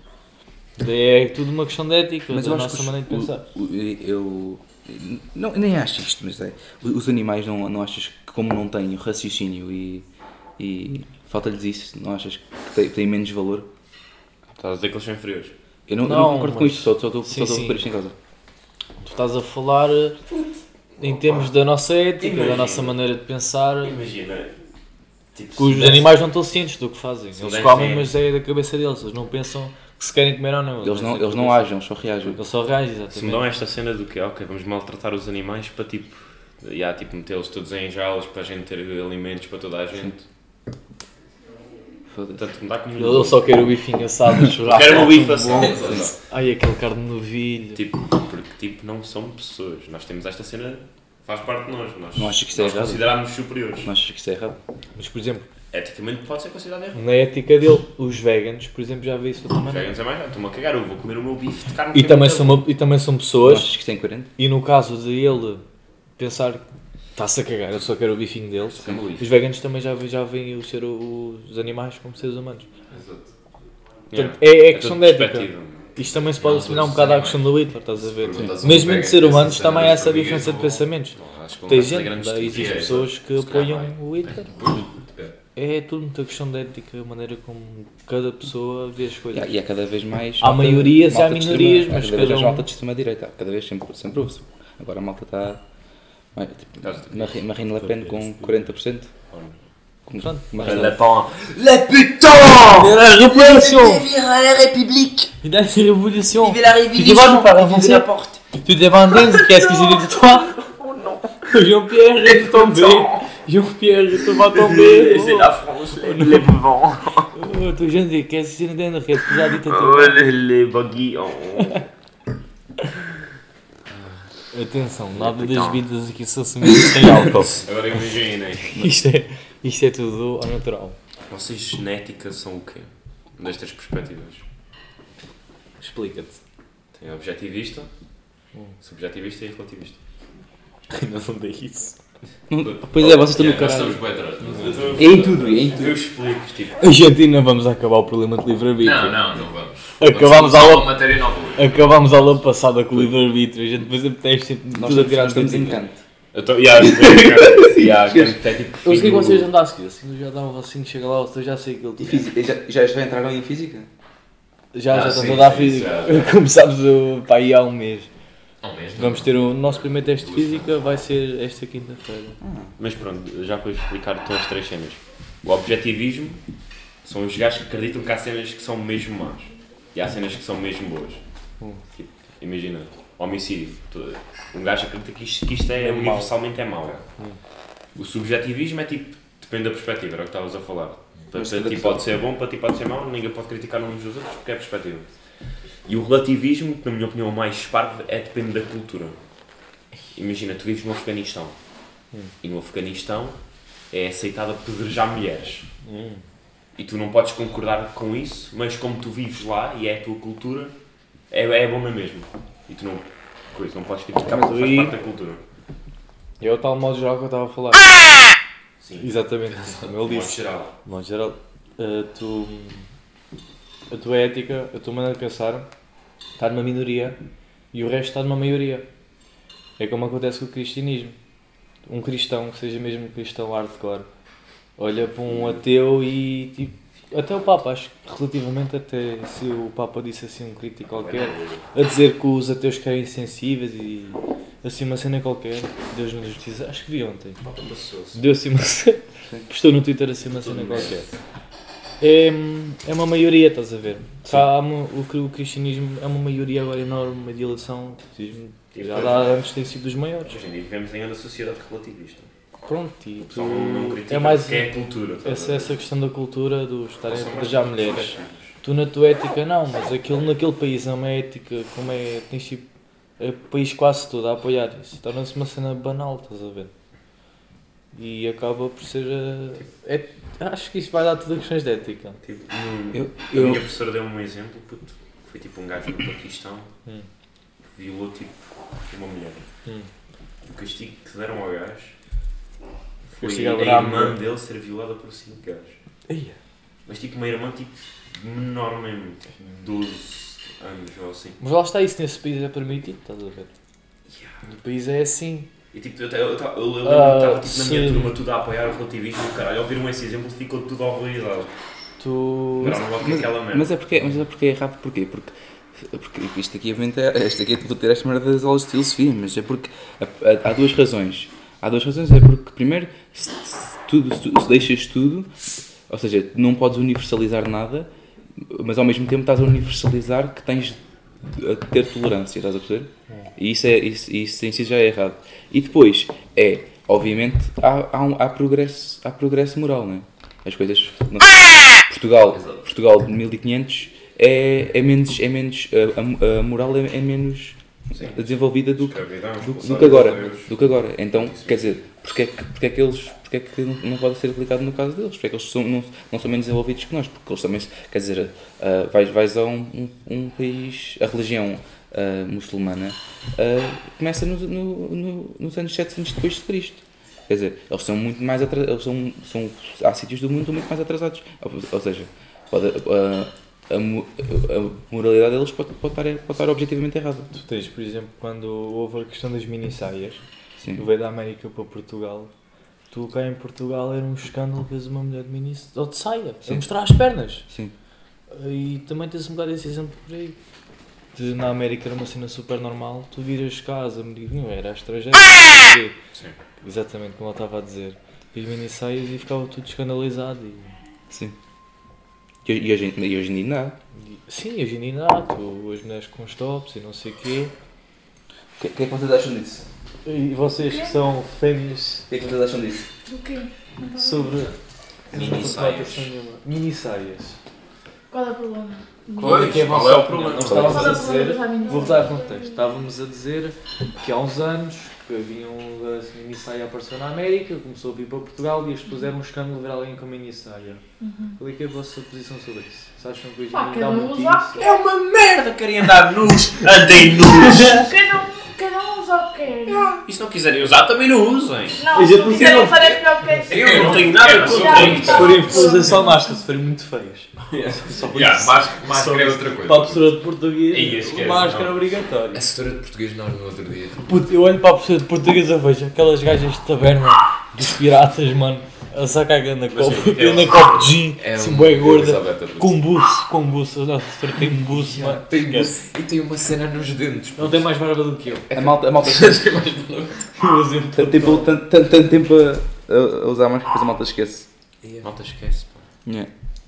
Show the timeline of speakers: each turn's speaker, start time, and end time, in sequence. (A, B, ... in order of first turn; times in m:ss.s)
0:00.8-0:03.4 A
0:02.3-0:10.0 B
0:10.6-0:13.7 B
0:14.6-0:15.5 C
0:15.9-0:18.1 B
0:16.0-0:17.8 A
0:19.0-0:20.2 A
0:21.0-0:21.5 C
0:21.0-0:24.0 A
0:22.2-0:23.0 C
0:23.8-0:24.5 C
0:25.3-0:26.1 C
0:25.6-0:31.7 A
0:27.4-0:28.1 C
0:30.8-0:32.4 B
0:32.2-0:33.5 A
0:33.1-0:40.2 C
0:42.1-0:42.4 B
0:42.4-0:43.6 C
0:43.0-0:47.8 A
0:44.6-0:46.1 C
0:45.5-0:46.1 D
0:45.7-0:46.1 B
0:47.7-0:53.9 C
0:52.2-0:53.1 B
0:53.8-0:54.6 B
0:55.0-0:55.4 A
0:55.7-0:57.0 C
0:56.9-0:59.9 A
0:59.6-1:02.6 C
1:01.9-1:03.7 A
1:03.4-1:04.3 B
1:04.4-1:05.6 A
1:06.2-1:06.6 A
1:07.1-1:12.7 A
1:08.7-1:09.2 C
1:12.9-1:13.3 D
1:14.1-1:16.0 C
1:14.1-1:21.2 A
1:16.4-1:20.8 D
1:21.1-1:24.8 C
1:21.7-1:24.5 A
1:22.5-1:23.0 D
1:25.5-1:29.5 A
1:29.3-1:35.6 B
1:30.4-1:32.7 A
1:36.3-1:39.1 B
1:36.8-1:38.6 C
1:39.3-1:39.6 C
1:40.1-1:41.0 B
1:40.2-1:41.0 A
1:40.6-1:42.9 C
1:41.6-1:45.3 B
1:42.6-1:44.1 A
1:45.4-1:50.6 A
1:46.4-1:48.4 B
1:49.1-1:51.5 C
1:51.5-1:56.5 A
1:52.2-1:53.2 C
1:54.2-1:57.3 C
1:57.3-2:00.2 A
1:59.6-2:01.8 C
2:03.9-2:04.2 C
2:04.5-2:07.6 A
2:05.1-2:05.8 C
2:07.0-2:08.8 C
2:08.7-2:11.0 A
2:11.3-2:14.4 C
2:15.8-2:16.4 A
2:16.9-2:17.9 C
2:18.8-2:20.0 C
2:20.9-2:22.0 A
2:22.5-2:24.0 B
2:22.6-2:25.1 D
2:23.4-2:24.9 A
2:24.4-2:26.8 C
2:25.0-2:26.0 B
2:26.8-2:29.2 A
2:28.8-2:31.8 D
2:30.0-2:35.8 A
2:34.7-2:36.0 B
2:36.3-2:39.4 C
2:37.0-2:38.3 B
2:38.8-2:42.3 A
2:42.0-2:43.9 B
2:44.7-2:48.1 A
2:44.9-2:46.3 D
2:48.6-2:50.7 D
2:49.0-2:52.4 A
2:52.4-2:52.7 B
2:52.8-2:56.4 C
2:57.0-3:01.2 C
3:01.9-3:07.0 C
3:05.8-3:06.3 A
3:08.0-3:15.0 C
3:11.3-3:12.0 B
3:15.9-3:19.2 C
3:20.1-3:21.6 C
3:22.4-3:23.4 C
3:23.9-3:25.6 C
3:25.8-3:26.2 A
3:26.8-3:30.7 C
3:31.3-3:35.4 C
3:34.3-3:35.0 A
3:36.4-3:38.1 A
3:38.8-3:39.1 C
3:38.9-3:42.8 A
3:39.6-3:39.9 D
3:40.0-3:40.7 C
3:43.9-3:45.7 A
3:46.4-3:47.2 A
3:47.7-3:48.8 A
3:49.8-3:51.2 A
3:51.8-3:54.1 A
3:54.8-4:07.4 A
4:01.0-4:01.6 C
4:07.4-4:08.2 C
4:08.1-4:11.1 A
4:10.3-4:11.1 C
4:12.0-4:20.4 A
4:18.7-4:19.3 C
4:20.2-4:22.3 C
4:22.6-4:24.7 A
4:23.2-4:25.7 C
4:25.2-4:32.6 A
4:27.1-4:28.5 C
4:33.2-4:36.7 A
4:37.9-4:42.2 A
4:42.2-4:46.7 C
4:42.9-4:43.6 B
4:47.7-4:49.4 C
4:49.6-4:49.9 A
4:50.4-4:51.9 C
4:53.1-4:55.8 C
4:53.2-4:54.2 A
4:56.1-4:56.4 A
4:56.8-5:01.4 C
5:01.4-5:03.5 A
5:04.4-5:05.5 A
5:05.7-5:11.5 C
5:06.8-5:08.1 A
5:12.0-5:12.8 A
5:12.6-5:13.7 C
5:12.6-5:25.3 B
5:25.9-6:17.3 B
5:42.3-5:42.6 D
5:47.9-5:50.5 C
5:51.1-5:51.8 C
6:17.3-6:20.2 A
6:20.6-6:20.9 B
6:20.7-6:22.3 A
6:22.9-6:27.5 A
6:27.5-6:27.7 B
6:28.3-6:30.4 A
6:31.1-6:36.0 A
6:36.6-6:40.7 A
6:41.1-6:41.4 B
6:42.4-6:43.8 B
6:43.9-6:47.5 A
6:48.6-6:49.6 B
6:50.0-6:52.3 A
6:50.6-6:50.9 E
6:52.1-6:52.8 B
6:53.1-6:54.4 E
6:53.9-6:54.5 A
6:55.1-6:57.4 A
6:55.1-6:56.1 C
6:58.1-6:59.7 E
6:59.2-7:01.1 C
6:59.2-7:10.8 A
6:59.3-6:59.9 D
7:00.5-7:00.9 B
7:00.5-7:02.5 E
7:11.0-7:11.4 E
7:11.4-7:14.7 A
7:13.5-7:14.8 E
7:14.6-7:17.9 C
7:17.1-7:17.9 A
7:17.2-7:20.0 E
7:19.7-7:21.8 C
7:21.8-7:26.3 E
7:21.9-7:22.9 A
7:23.5-7:25.6 C
7:23.5-7:25.5 D
7:24.3-7:32.5 A
7:27.5-7:28.0 C
7:28.1-7:30.1 D
7:30.7-7:31.8 C
7:32.3-7:34.1 D
7:34.0-7:45.8 A
7:39.7-7:41.0 C
7:41.2-7:42.8 D
7:44.6-7:47.6 D
7:47.4-7:48.5 A
7:48.5-7:49.5 B
7:48.5-7:50.4 D
7:50.3-7:51.5 A
7:50.9-7:54.5 B
7:54.8-7:55.1 D
7:55.0-7:55.9 C
7:56.0-7:56.3 B